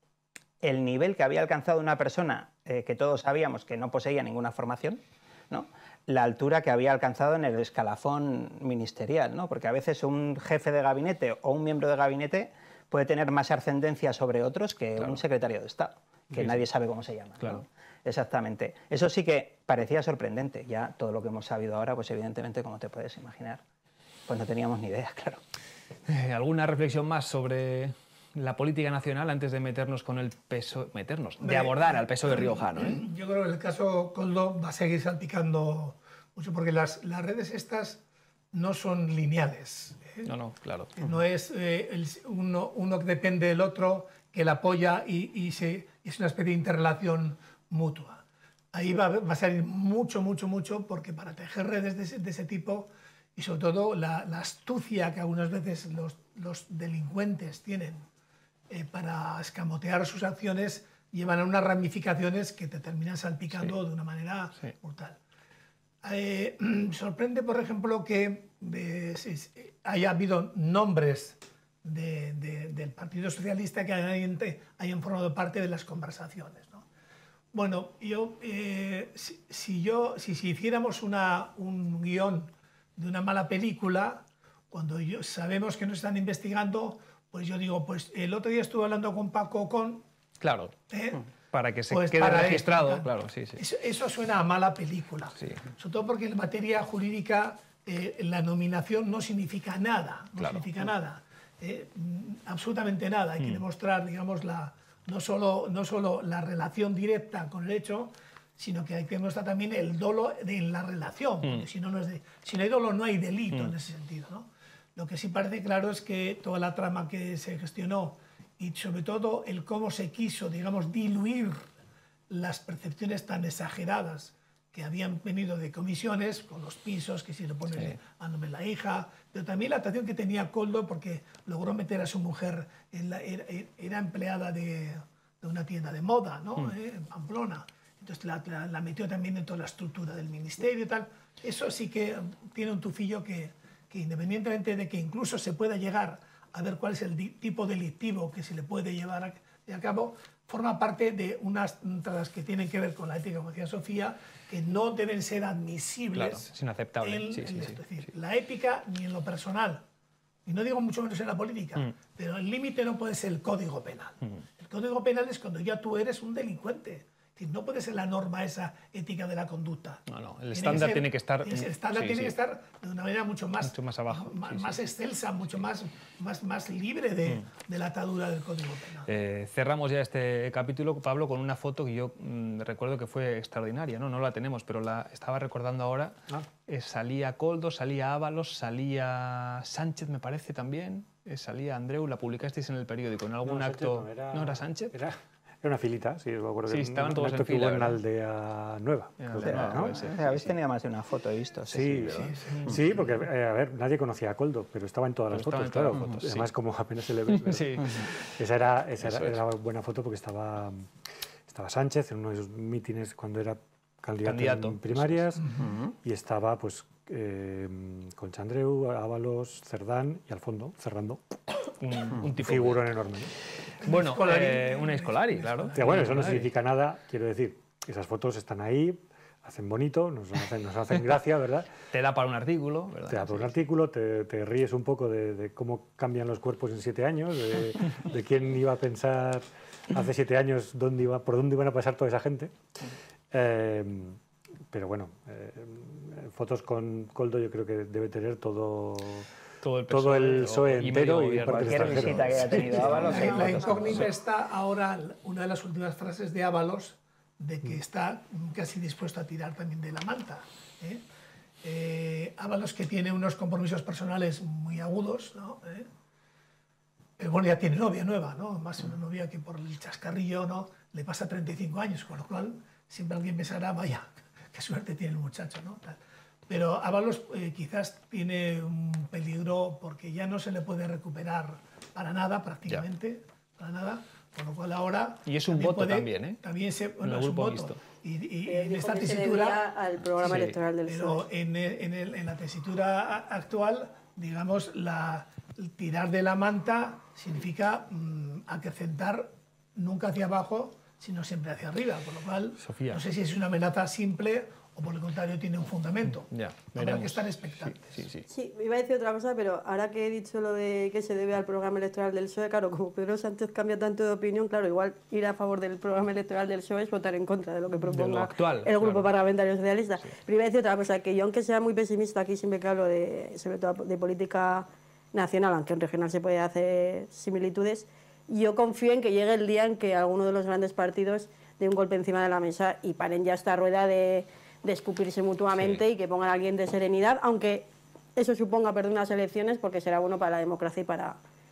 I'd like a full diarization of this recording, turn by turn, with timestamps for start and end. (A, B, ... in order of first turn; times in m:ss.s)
0:00.6-0:23.6 A
0:16.4-0:16.6 B
0:24.3-0:25.4 A
0:26.1-0:33.0 B
0:31.4-0:38.0 C
0:38.5-0:40.3 C
0:40.2-0:40.9 B
0:41.0-0:58.1 C
0:58.7-1:05.2 C
1:06.0-1:16.8 C
1:17.5-1:30.0 C
1:30.4-1:30.8 B
1:30.9-1:31.2 C
1:31.5-1:33.6 B
1:31.9-2:01.7 C
1:35.4-1:35.7 B
1:40.4-1:40.7 B
1:43.4-1:43.6 B
2:02.3-2:36.5 C
2:07.7-2:08.0 B
2:36.1-2:38.1 B
2:37.0-2:39.8 C
2:40.4-2:59.1 C
2:50.1-2:52.4 B
2:53.6-2:54.8 B
2:59.1-3:14.9 B
3:13.4-3:20.0 D
3:16.7-3:18.0 B
3:19.2-3:20.5 B
3:19.4-3:22.2 A
3:21.7-3:30.9 D
3:22.2-3:22.8 C
3:22.5-3:22.8 B
3:25.3-3:26.5 B
3:27.3-3:28.4 B
3:29.0-3:29.4 B
3:31.5-3:35.5 D
3:34.2-3:35.2 B
3:36.0-3:41.4 D
3:41.8-3:42.8 B
3:42.1-3:43.3 D
3:43.8-3:46.5 B
3:43.8-3:46.3 C
3:45.8-3:51.7 D
3:51.9-3:53.5 B
3:53.1-4:02.6 D
4:03.3-4:04.2 D
4:04.7-4:09.3 D
4:09.6-4:14.0 B
4:09.9-4:12.9 D
4:11.5-4:13.7 A
4:12.8-4:21.0 C
4:13.1-4:13.9 E
4:21.6-4:25.9 C
4:27.2-4:49.7 C
4:45.2-4:46.4 B
4:47.0-4:47.8 B
4:48.4-4:51.2 E
4:50.2-5:08.1 C
4:50.2-4:50.6 B
5:02.6-5:03.0 B
5:06.3-5:08.3 B
5:08.3-5:41.2 E
5:17.8-5:19.1 B
5:35.5-5:35.8 B